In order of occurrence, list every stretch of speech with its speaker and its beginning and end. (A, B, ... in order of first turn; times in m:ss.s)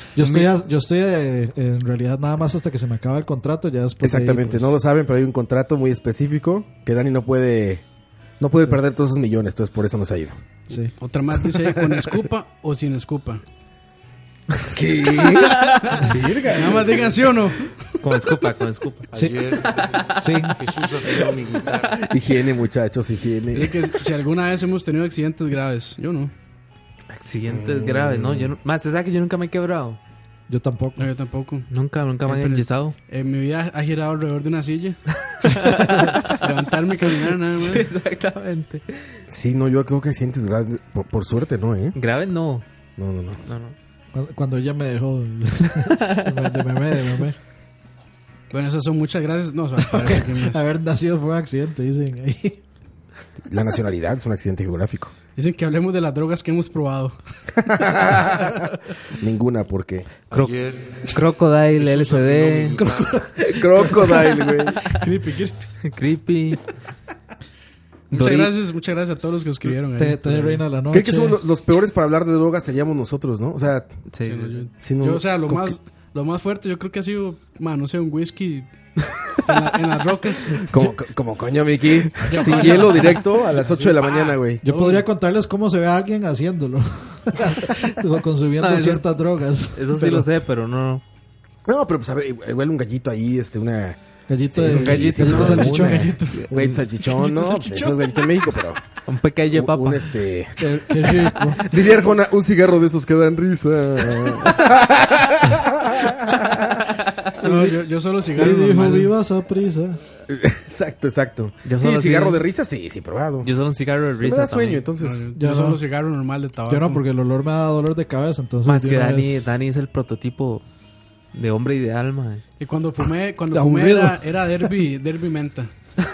0:00.2-0:04.8 A
0:00.2-0:00.5 B
0:04.0-0:07.8 B
0:08.4-0:10.4 B
0:10.7-0:13.4 C
0:11.5-0:12.1 B
0:14.7-0:17.4 B
0:15.5-0:15.8 D
0:15.6-0:17.8 C
0:18.0-0:19.1 D
0:19.1-0:22.1 E
0:20.2-0:20.6 A
0:22.0-0:24.0 B
0:23.5-0:26.3 C
0:27.1-0:30.0 D
0:27.5-0:28.5 B
0:30.5-0:31.1 A
0:31.0-0:31.7 C
0:31.7-0:33.0 D
0:32.2-0:35.0 C
0:35.3-0:36.4 D
0:35.6-0:37.9 C
0:37.5-0:38.8 D
0:39.3-0:42.0 B
0:42.0-0:42.6 D
0:43.0-0:43.4 B
0:43.4-0:43.8 D
0:44.1-0:47.4 A
0:48.5-0:50.6 C
0:49.9-0:52.6 A
0:53.5-0:55.1 B
0:55.4-0:57.2 C
0:57.6-0:58.6 B
0:59.2-1:00.1 B
1:00.3-1:03.9 E
1:01.1-1:02.8 D
1:02.8-1:04.2 A
1:03.5-1:04.9 B
1:04.9-1:05.6 C
1:05.8-1:06.6 D
1:08.1-1:10.6 C
1:08.1-1:08.5 D
1:10.0-1:11.4 A
1:10.9-1:13.9 B
1:14.1-1:14.6 D
1:14.3-1:18.7 C
1:14.8-1:15.8 B
1:19.4-1:20.7 C
1:20.6-1:24.6 B
1:22.2-1:25.1 C
1:22.3-1:22.9 D
1:24.6-1:30.3 A
1:28.6-1:29.1 D
1:29.7-1:31.0 D
1:31.7-1:34.0 B
1:34.3-1:36.2 A
1:34.5-1:38.8 B
1:34.7-1:35.9 D
1:35.4-1:36.5 C
1:37.0-1:38.2 C
1:39.0-1:40.1 D
1:39.5-1:46.9 B
1:40.6-1:41.6 A
1:47.4-1:49.1 C
1:47.4-1:47.8 A
1:48.3-1:50.0 A
1:50.3-1:53.5 B
1:51.6-1:52.4 D
1:53.4-1:54.8 D
1:54.2-1:55.3 B
1:55.0-1:57.0 C
1:55.3-1:55.8 A
1:56.7-1:59.6 A
1:58.6-2:00.6 D
2:01.3-2:02.4 D
2:02.6-2:05.7 C
2:03.5-2:04.8 A